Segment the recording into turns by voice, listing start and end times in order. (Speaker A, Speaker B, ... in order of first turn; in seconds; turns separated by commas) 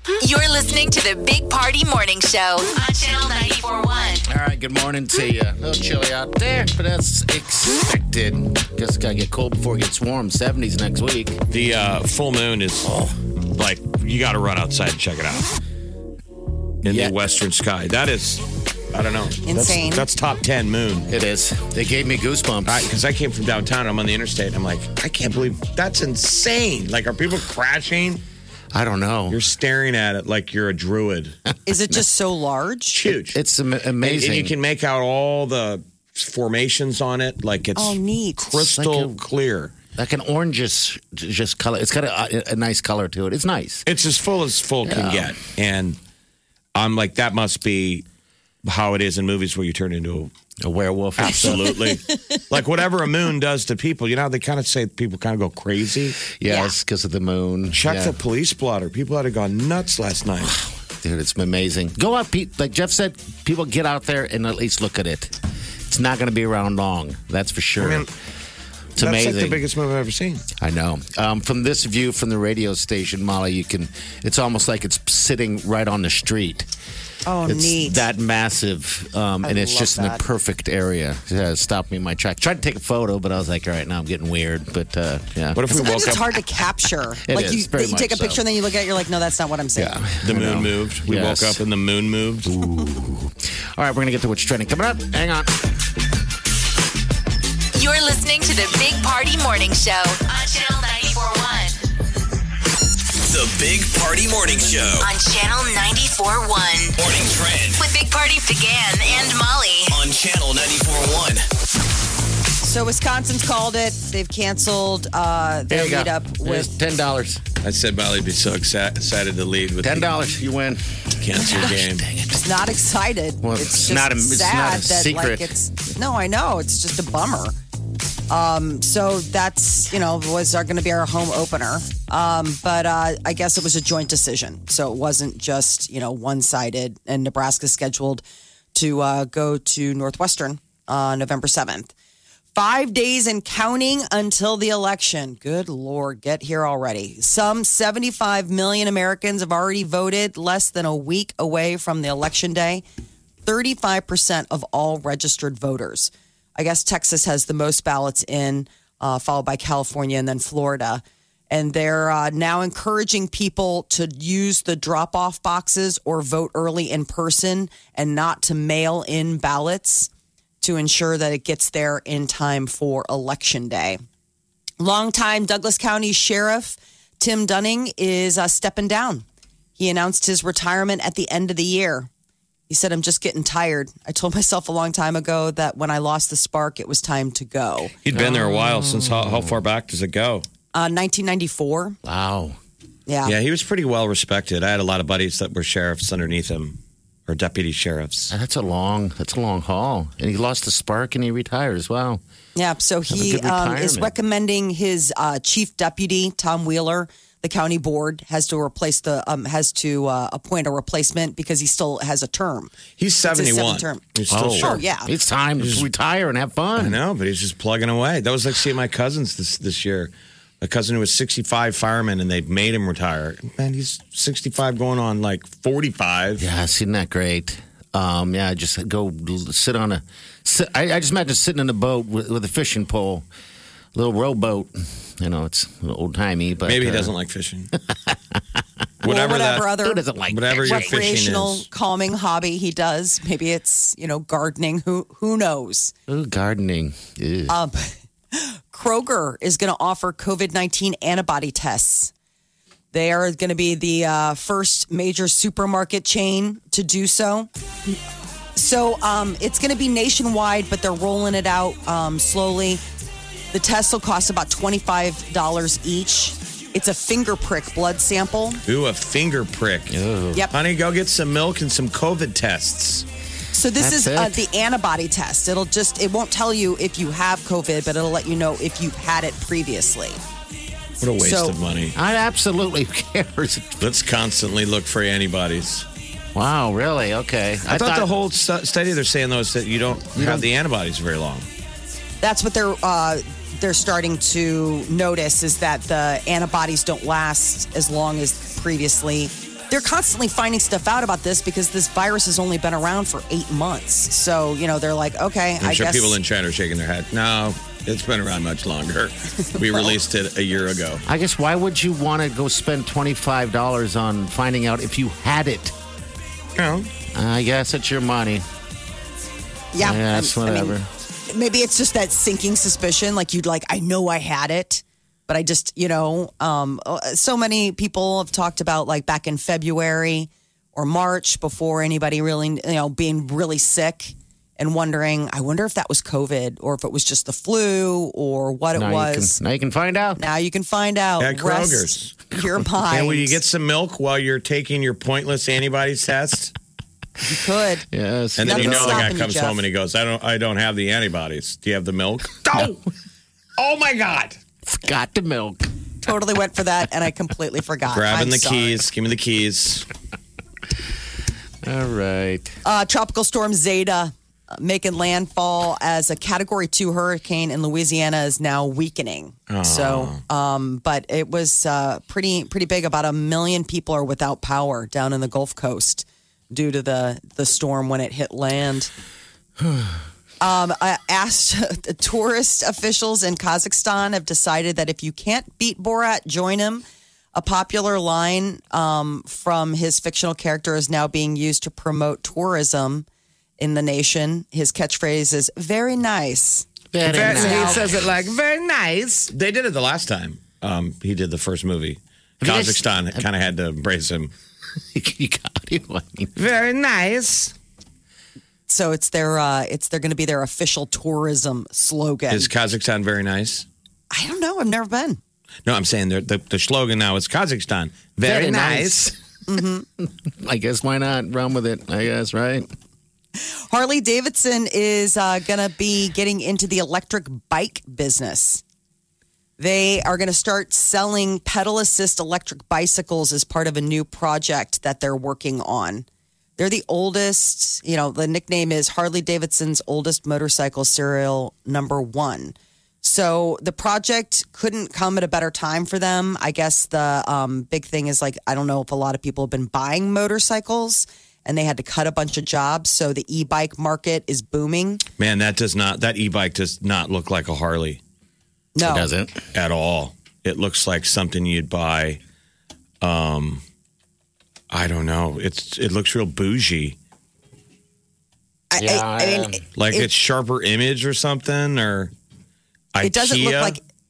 Speaker A: 0.2-4.2, Speaker B: 4.3-11.4, Speaker C: 11.5-12.9, Speaker C: 13.5-15.4, Speaker C: 16.8-21.1, Speaker B: 16.9-17.2, Speaker D: 19.5-20.1, Speaker B: 21.1-22.9, Speaker C: 22.7-28.2, Speaker B: 28.7-29.4, Speaker C: 29.3-31.4, Speaker D: 31.7-33.0, Speaker C: 32.9-33.4, Speaker B: 33.3-34.5, Speaker C: 34.0-39.7, Speaker D: 37.8-38.6, Speaker B: 38.6-39.2, Speaker B: 40.0-43.9, Speaker C: 43.9-46.0, Speaker B: 44.9-45.4, Speaker C: 46.8-48.0, Speaker C: 48.6-50.3, Speaker B: 50.6-51.8, Speaker C: 51.2-56.2, Speaker D: 51.3-51.8, Speaker B: 56.3-58.1, Speaker C: 57.7-60.5, Speaker B: 60.5-68.1, Speaker C: 67.8-68.1, Speaker B: 69.0-69.6, Speaker C: 69.0-70.5, Speaker B: 70.6-76.7, Speaker D: 77.3-78.0, Speaker B: 77.5-85.6, Speaker D: 79.4-80.2, Speaker C: 85.5-86.4, Speaker D: 85.7-90.0, Speaker B: 87.2-88.4, Speaker B: 89.8-91.6, Speaker C: 90.2-92.5, Speaker B: 92.5-95.6, Speaker A: 97.7-101.8, Speaker E: 103.2-105.1, Speaker A: 105.0-107.0, Speaker E: 107.0-107.8, Speaker A: 107.8-110.0, Speaker E: 109.9-111.5, Speaker D: 112.6-116.7, Speaker B: 115.7-117.4, Speaker C: 117.6-120.1, Speaker B: 119.8-122.5, Speaker C: 121.2-122.0, Speaker D: 122.4-127.5, Speaker B: 123.4-125.5, Speaker D: 128.3-138.2, Speaker D: 138.8-141.9, Speaker D: 142.6-152.8, Speaker D: 153.5-170.1, Speaker D: 170.6-174.0, Speaker D: 174.8-179.2, Speaker D: 179.8-182.1, Speaker D: 182.7-187.9, Speaker C: 188.1-190.4, Speaker B: 188.1-189.6, Speaker D: 190.7-192.0, Speaker B: 192.0-192.6, Speaker D: 193.1-193.3, Speaker C: 193.3-198.3, Speaker B: 198.3-202.2, Speaker D: 202.6-212.7, Speaker B: 203.1-204.1, Speaker C: 213.0-214.8, Speaker D: 213.2-214.0, Speaker B: 214.3-217.0, Speaker D: 214.6-215.1, Speaker C: 215.6-215.9, Speaker C: 216.8-226.5, Speaker B: 226.4-233.2, Speaker B: 233.9-237.1, Speaker C: 236.7-237.7, Speaker B: 237.9-238.2, Speaker C: 239.0-239.7, Speaker D: 239.0-240.0, Speaker B: 239.7-241.2, Speaker C: 240.3-241.7, Speaker D: 240.7-245.9, Speaker B: 246.1-247.6, Speaker D: 247.5-252.1, Speaker D: 252.9-257.5, Speaker D: 258.6-262.8, Speaker D: 263.5-268.6, Speaker C: 268.7-270.0, Speaker B: 269.9-270.5, Speaker C: 270.5-273.1, Speaker D: 273.5-280.2, Speaker B: 273.8-274.4, Speaker C: 281.0-281.9, Speaker D: 281.2-281.6, Speaker B: 281.9-283.9, Speaker C: 283.8-285.9, Speaker B: 286.4-288.1, Speaker C: 287.7-291.5, Speaker B: 290.1-290.5, Speaker D: 292.2-306.2, Speaker C: 305.6-311.0, Speaker D: 309.5-309.9, Speaker B: 311.1-315.8, Speaker C: 316.6-316.9, Speaker B: 317.1-318.4, Speaker D: 319.7-320.8, Speaker B: 319.8-320.9, Speaker D: 321.3-339.4, Speaker B: 338.8-340.2, Speaker D: 340.2-343.4, Speaker C: 341.2-342.1, Speaker C: 342.9-346.5, Speaker D: 347.2-347.9, Speaker B: 347.9-349.1, Speaker C: 348.4-352.8, Speaker D: 348.4-349.6, Speaker C: 353.6-354.4, Speaker B: 354.7-355.7, Speaker D: 356.0-358.8, Speaker C: 357.9-359.9, Speaker B: 361.6-362.5, Speaker D: 362.6-378.9, Speaker C: 369.5-370.2, Speaker B: 379.6-380.0, Speaker D: 380.4-393.1, Speaker D: 393.6-396.7, Speaker B: 396.9-398.1, Speaker C: 397.0-404.3, Speaker D: 397.2-397.8, Speaker B: 402.4-403.2, Speaker B: 404.9-406.3, Speaker C: 406.4-407.5, Speaker D: 408.7-412.5, Speaker C: 412.3-413.7, Speaker D: 414.1-415.2, Speaker C: 415.7-419.1, Speaker B: 418.2-419.1, Speaker D: 419.5-419.9, Speaker B: 420.0-422.7, Speaker D: 423.4-428.6, Speaker D: 429.6-436.1, Speaker D: 436.6-455.0, Speaker C: 455.2-458.0, Speaker D: 458.8-459.1, Speaker B: 458.8-459.4, Speaker C: 459.5-462.2, Speaker C: 463.0-463.6, Speaker C: 464.7-467.0, Speaker D: 468.7-470.1, Speaker B: 468.8-469.6, Speaker C: 469.8-472.1, Speaker C: 472.9-473.8, Speaker D: 473.0-473.8